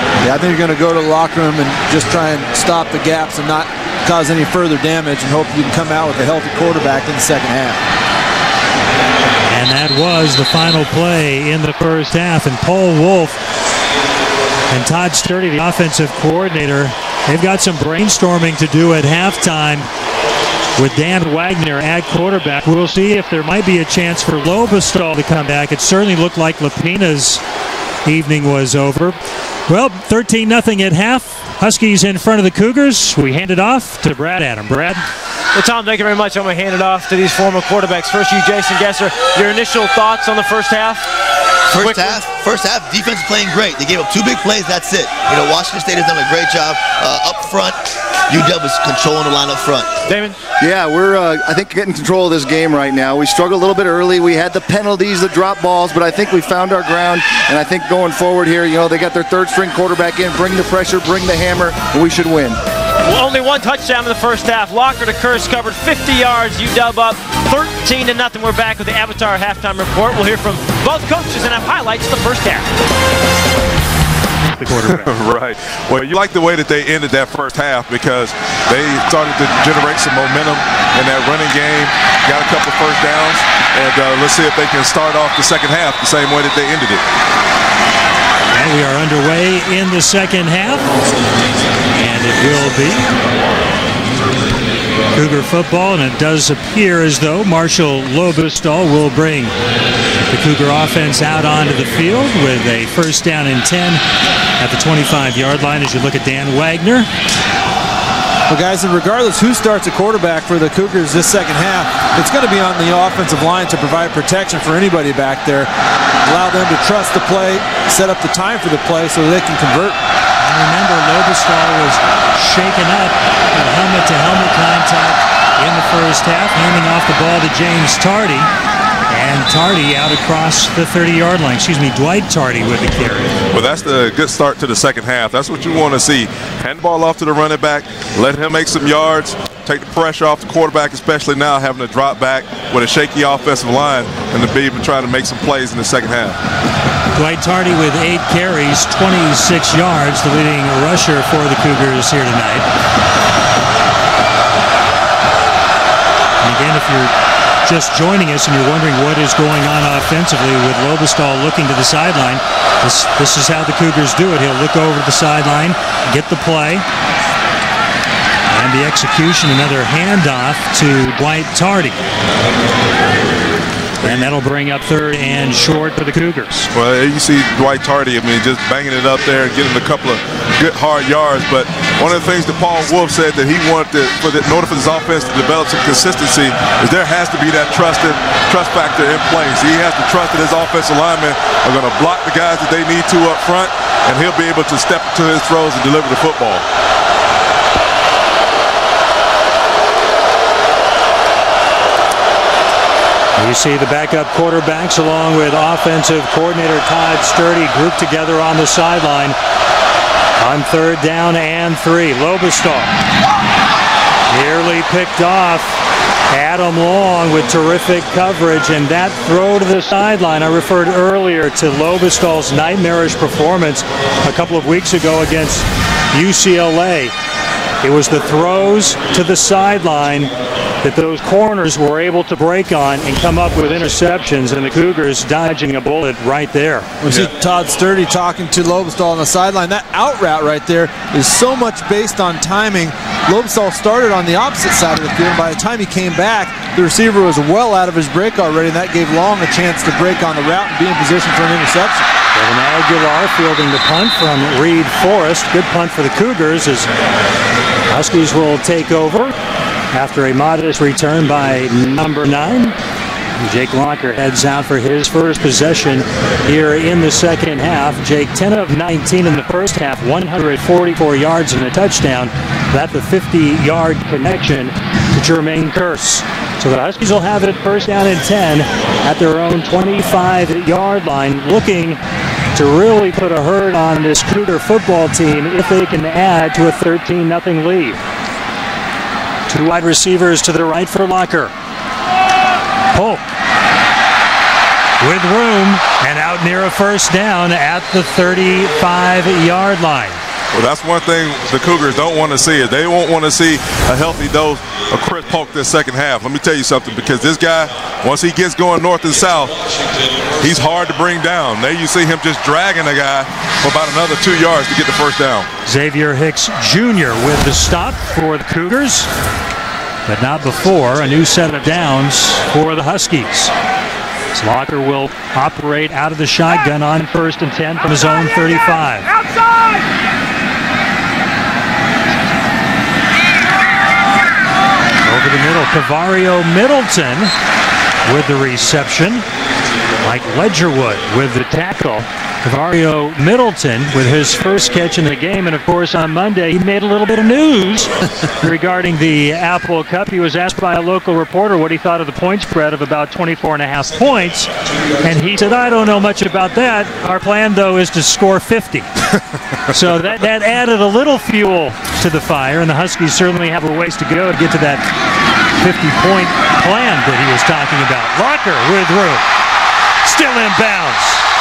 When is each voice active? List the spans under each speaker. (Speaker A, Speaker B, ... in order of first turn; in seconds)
Speaker A: 0.2-7.8, 108.5-115.7, 116.2-120.0, 237.0-252.1
Speaker B: 9.5-13.4, 14.7-19.9, 20.8-27.4, 28.1-35.0, 74.5-75.1, 88.5-90.9, 92.0-93.1, 95.2-99.5, 100.3-104.0, 104.6-107.1, 120.4-128.5, 129.1-133.3, 147.2-152.7, 156.4-157.1, 157.6-166.9, 168.5-172.0, 174.0-176.7, 203.4-209.4, 210.4-212.9, 214.3-215.8, 216.3-227.1, 227.8-230.3, 230.8-236.9, 252.3-256.9, 257.9-259.4, 259.9-262.8, 263.4-282.0, 282.6-288.0, 289.5-291.5, 292.9-293.2, 295.0-300.2, 315.7-319.1, 320.1-323.5, 324.4-329.1, 335.1-337.3, 338.1-339.3, 340.0-354.5, 355.0-358.9, 359.7-364.9, 365.6-369.2, 370.0-371.2
Speaker C: 35.5-41.1, 41.8-42.2, 50.1-50.4, 63.0-72.7
Speaker D: 41.7-50.0
Speaker E: 50.6-62.6
Speaker F: 74.8-87.0, 133.5-146.4, 174.0-174.3, 176.7-196.6, 300.5-309.8, 310.4-315.5